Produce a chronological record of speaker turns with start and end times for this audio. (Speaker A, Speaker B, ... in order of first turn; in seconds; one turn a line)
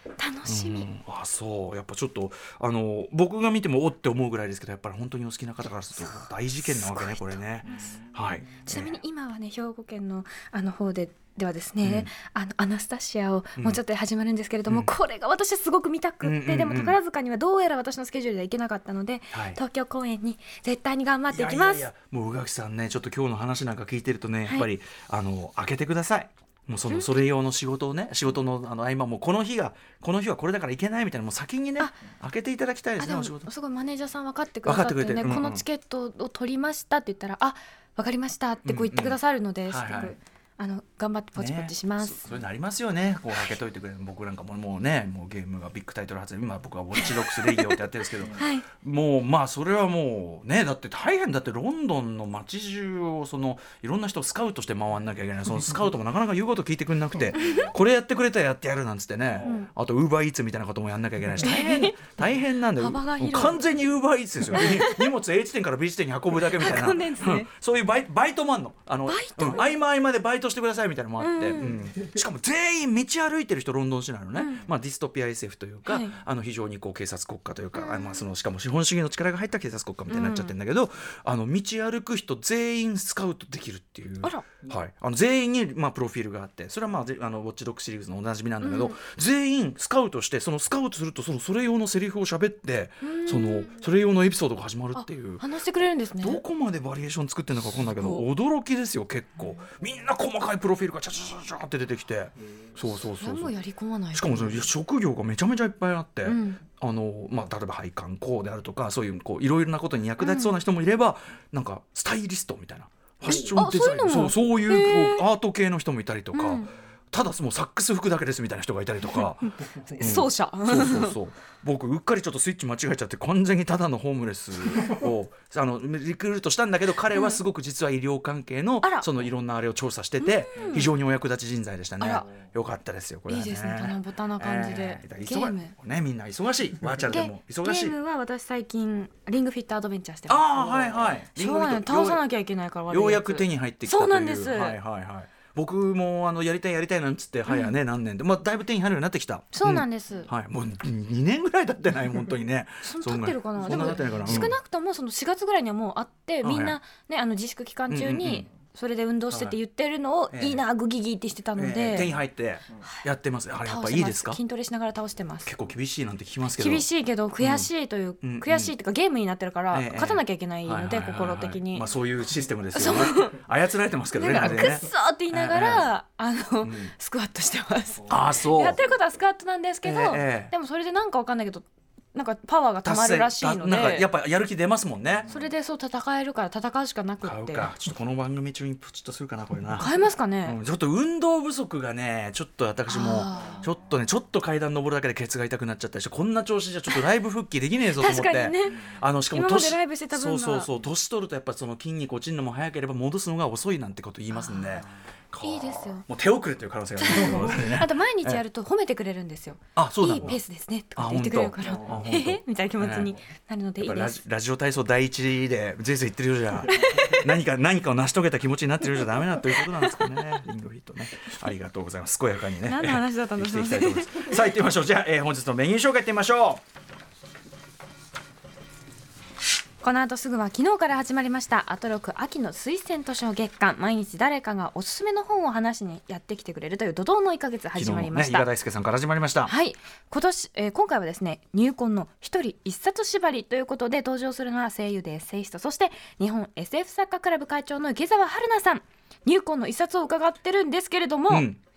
Speaker A: 0.2-0.9
Speaker B: 0.5-8.9
Speaker A: 6.0-7.9
Speaker A: 8.6-21.9
Speaker B: 11.8-12.1
Speaker B: 16.2-17.0
Speaker B: 19.3-19.6
Speaker B: 21.3-33.5
Speaker A: 33.0-42.3
Speaker B: 34.6-35.6
Speaker B: 38.6-39.2
Speaker B: 39.7-40.1
Speaker B: 41.4-95.4
Speaker A: 47.0-47.8
Speaker A: 48.3-48.6
Speaker A: 57.4-57.7
Speaker A: 59.4-59.7
Speaker A: 61.4-62.0
Speaker A: 62.8-63.6
Speaker A: 64.5-65.1
Speaker A: 66.5-67.5
Speaker A: 69.1-69.7
Speaker A: 71.2-71.8
Speaker A: 74.3-74.6
Speaker A: 75.8-76.2
Speaker A: 77.7-78.3
Speaker A: 80.1-80.5
Speaker A: 88.6-89.0
Speaker A: 93.0-93.8
Speaker A: 94.9-96.4
Speaker B: 96.2-103.5
Speaker A: 98.0-98.2
Speaker A: 103.1-104.7
Speaker B: 104.1-137.9
Speaker A: 106.2-106.6
Speaker A: 110.2-110.5
Speaker A: 113.2-115.2
Speaker A: 116.3-116.7
Speaker A: 119.8-121.2
Speaker A: 127.1-127.4
Speaker A: 128.8-129.1
Speaker A: 130.2-130.9
Speaker A: 132.0-132.2
Speaker A: 133.3-135.7
Speaker A: 137.1-144.8
Speaker B: 140.3-142.2
Speaker B: 142.9-154.5
Speaker A: 147.5-147.7
Speaker A: 149.5-150.3
Speaker A: 152.8-162.1
Speaker B: 156.4-156.8
Speaker B: 157.9-158.5
Speaker B: 159.3-159.6
Speaker B: 160.3-160.6
Speaker B: 161.6-164.4
Speaker A: 163.6-165.5
Speaker B: 165.4-166.9
Speaker A: 166.6-171.8
Speaker B: 167.4-167.7
Speaker B: 168.2-168.7
Speaker B: 169.7-175.9
Speaker A: 172.7-173.3
Speaker A: 174.1-184.1
Speaker B: 176.6-176.9
Speaker B: 178.1-178.8
Speaker B: 179.8-180.5
Speaker B: 182.8-185.3
Speaker A: 185.3-187.7
Speaker B: 187.2-189.9
Speaker A: 189.8-190.6
Speaker B: 190.4-208.4
Speaker A: 192.9-193.6
Speaker A: 197.9-200.7
Speaker A: 204.3-204.8
Speaker A: 205.4-206.0
Speaker A: 207.0-214.2
Speaker B: 209.8-210.4
Speaker B: 210.9-213.1
Speaker B: 213.8-226.6
Speaker A: 216.7-217.2
Speaker A: 219.4-220.1
Speaker A: 222.6-224.4
Speaker A: 229.8-238.5
Speaker B: 237.7-239.5
Speaker A: 239.4-251.5
Speaker B: 251.3-251.6